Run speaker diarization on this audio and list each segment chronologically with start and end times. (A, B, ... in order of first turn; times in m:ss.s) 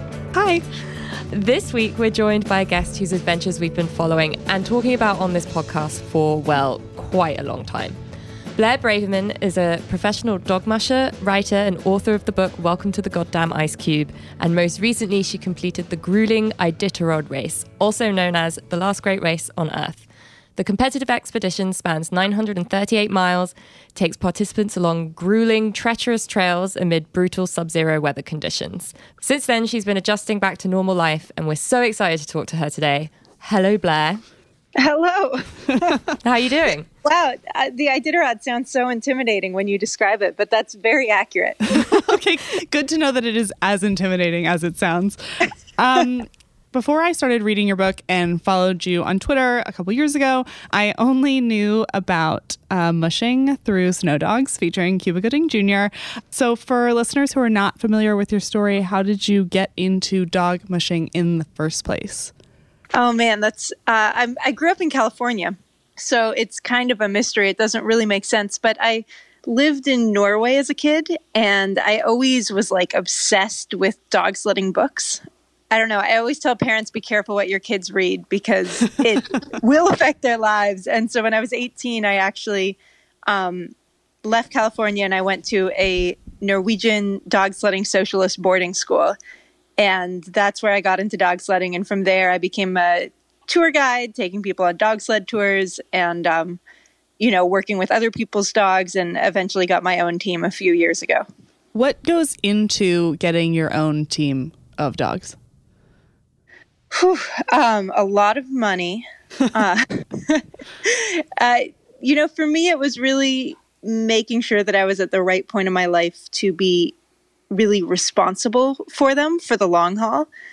0:00.3-0:00.6 A
0:01.0-0:08.0 B
0:08.6-0:20.0 B
0:20.6-0:34.2 B
0:34.8-0:36.0 C
0:36.2-0:36.9 B
0:37.0-0:41.8 C
0:41.7-1:02.3 A
1:02.9-1:23.7 C
1:24.2-1:29.2 C
1:29.8-1:36.6 C
1:37.2-1:41.2 C
1:41.7-1:45.4 A
1:46.9-1:56.9 C
1:57.5-2:00.3 C